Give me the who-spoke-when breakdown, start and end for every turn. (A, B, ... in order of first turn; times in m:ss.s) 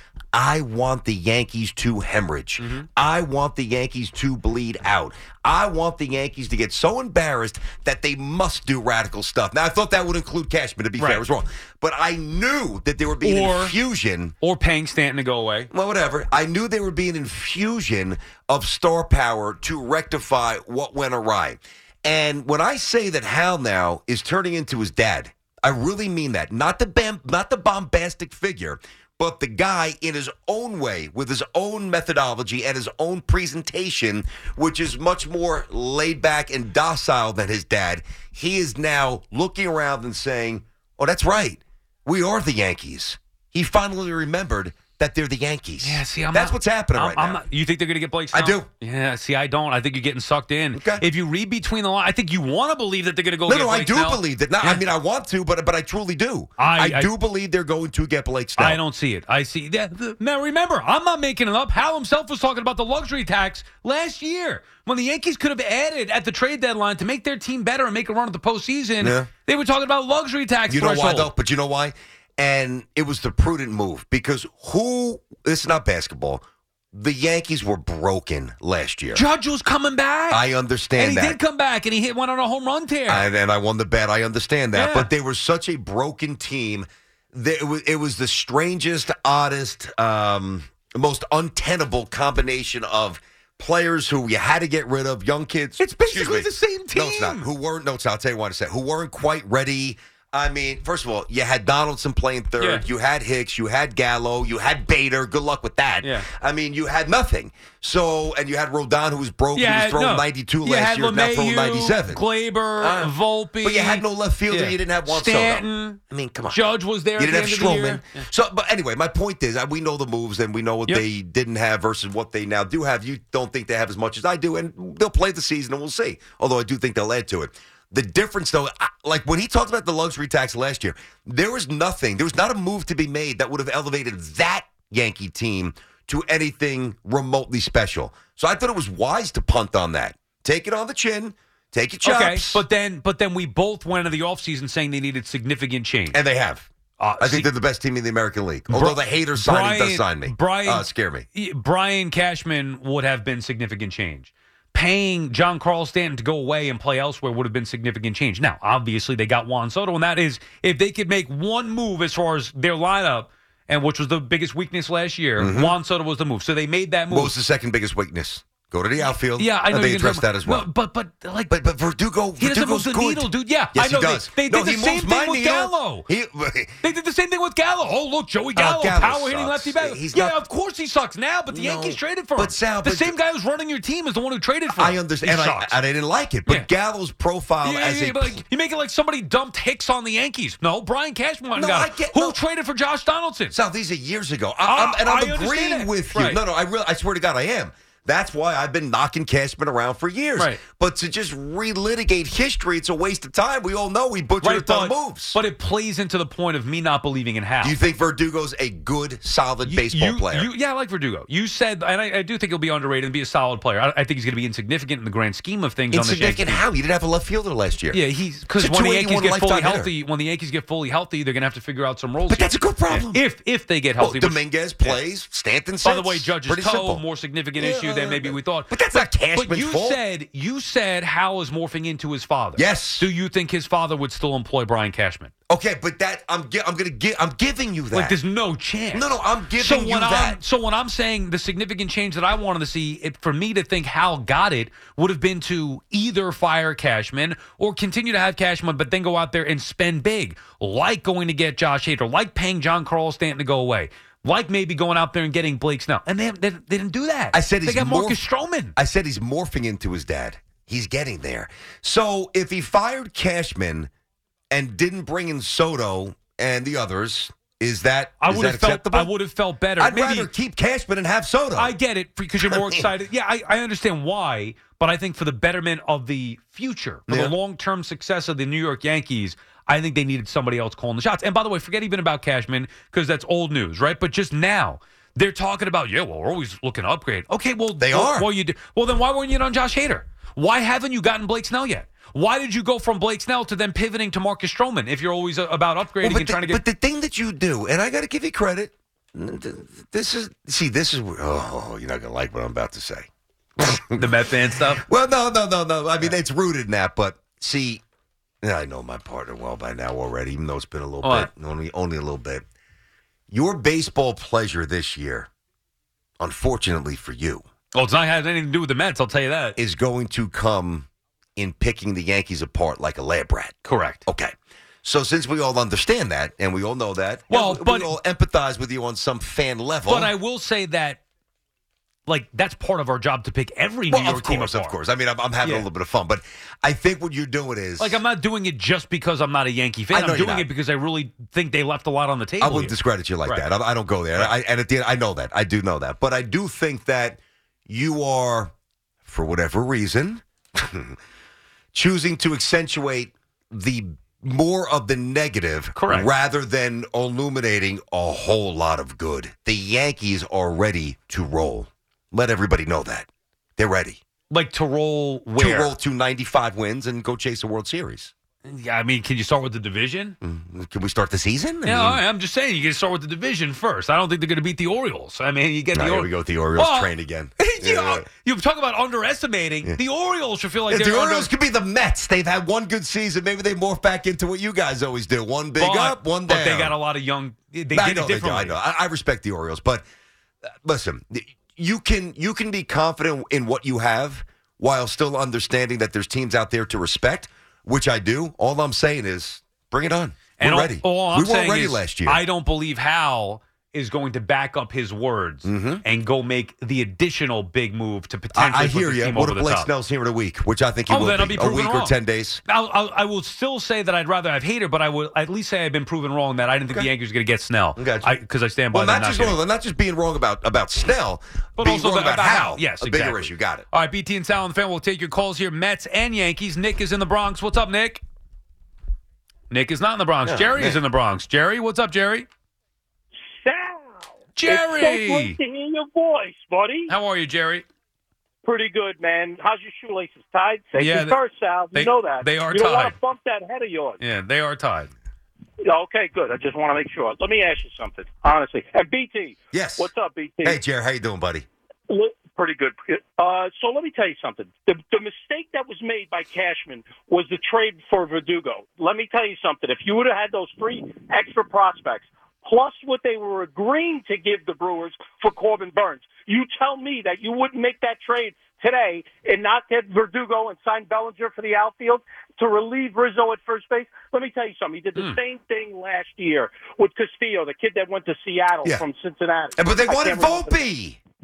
0:00.3-0:14.3 A
0:02.6-0:02.9 B
0:11.0-0:11.2 B
0:13.2-0:13.8 B
0:14.4-0:15.7 B
0:15.7-0:47.4 A
0:45.8-0:54.9 B
0:48.3-0:48.7 A
0:50.7-0:51.0 A
0:53.5-0:58.8 A
0:56.6-0:57.1 B
0:58.6-1:11.3 B
1:09.0-1:09.3 A
1:10.7-1:19.2 A
1:19.1-1:20.4 B
1:20.3-1:21.4 A
1:20.9-1:23.3 B
1:23.1-1:52.2 A
1:24.7-1:25.1 B
1:35.8-1:37.5 B
1:46.0-1:46.3 B
1:49.5-1:58.2 B
1:52.8-1:56.6 A
1:57.2-2:22.6 A
2:22.0-2:26.2 B
2:26.1-2:26.7 A
2:27.0-2:27.5 B
2:27.2-2:31.3 A
2:28.7-2:47.3 B
2:45.4-2:45.8 A
2:47.1-2:50.7 A
2:49.0-2:51.5 B
2:51.5-2:56.8 A
2:52.4-2:56.1 B
2:56.8-3:05.8 B
2:58.5-3:00.4 A
3:01.5-3:03.1 A
3:04.7-3:08.4 A
3:07.6-3:13.6 B
3:11.5-3:12.4 A
3:13.5-3:25.4 A
3:14.6-3:16.4 B
3:24.4-3:27.8 B
3:27.6-3:30.5 A
3:29.6-3:36.6 B
3:35.9-3:38.0 A
3:37.9-3:45.0 B
3:38.6-3:39.9 A
3:42.3-3:43.2 A
3:44.0-3:47.0 A
3:45.8-3:55.3 B
3:47.6-3:50.0 A
3:52.6-3:53.1 A
3:55.5-3:58.2 A
3:57.9-4:18.7 B
3:58.9-4:00.4 A
4:17.3-4:18.2 A
4:18.8-4:23.9 A
4:24.5-4:29.1 A
4:28.2-4:30.3 B
4:29.8-4:31.7 A
4:31.5-4:56.6 B
4:32.4-4:32.9 A
4:37.1-4:37.3 A
4:47.8-4:48.3 A
4:56.0-5:03.1 A
5:03.6-5:04.2 A
5:03.9-5:04.8 B
5:04.7-5:07.8 A
5:08.4-5:12.4 A
5:11.0-5:11.3 B
5:13.3-5:15.3 A
5:16.2-5:17.4 A
5:17.7-5:19.6 B
5:19.6-5:24.3 A
5:23.6-5:24.0 B
5:24.8-5:30.1 A
5:27.3-5:27.9 B
5:29.8-5:31.0 B
5:32.1-5:34.8 B
5:33.9-5:38.0 A
5:35.4-5:35.7 B
5:37.8-5:43.4 B
5:39.9-5:40.5 A
5:42.4-5:48.5 A
5:49.0-5:51.0 A
5:51.7-6:04.0 A
5:55.8-5:56.1 B
6:04.3-6:05.7 B
6:05.4-6:08.1 A
6:08.4-6:10.2 B
6:10.2-6:12.0 A
6:11.6-6:21.3 B
6:15.7-6:18.1 A
6:20.7-6:26.8 A
6:25.6-6:28.6 B
6:27.7-6:29.8 A
6:30.6-6:42.2 A
6:40.4-6:49.7 B
6:45.4-6:45.8 A
6:48.3-6:52.4 A
6:50.9-6:59.4 B
6:57.8-6:58.1 A
6:58.7-7:03.7 A
7:01.6-7:08.0 B
7:09.5-7:12.3 B
7:10.2-7:10.8 A
7:13.3-7:16.9 C
7:14.4-7:15.4 B
7:16.9-7:17.6 B
7:18.4-7:24.0 C
7:20.8-7:21.2 B
7:21.7-7:22.9 B
7:24.0-7:24.9 B
7:25.6-7:30.6 C
7:29.5-7:29.9 A
7:30.4-7:31.4 A
7:31.9-8:00.6 C
7:59.6-8:01.0 A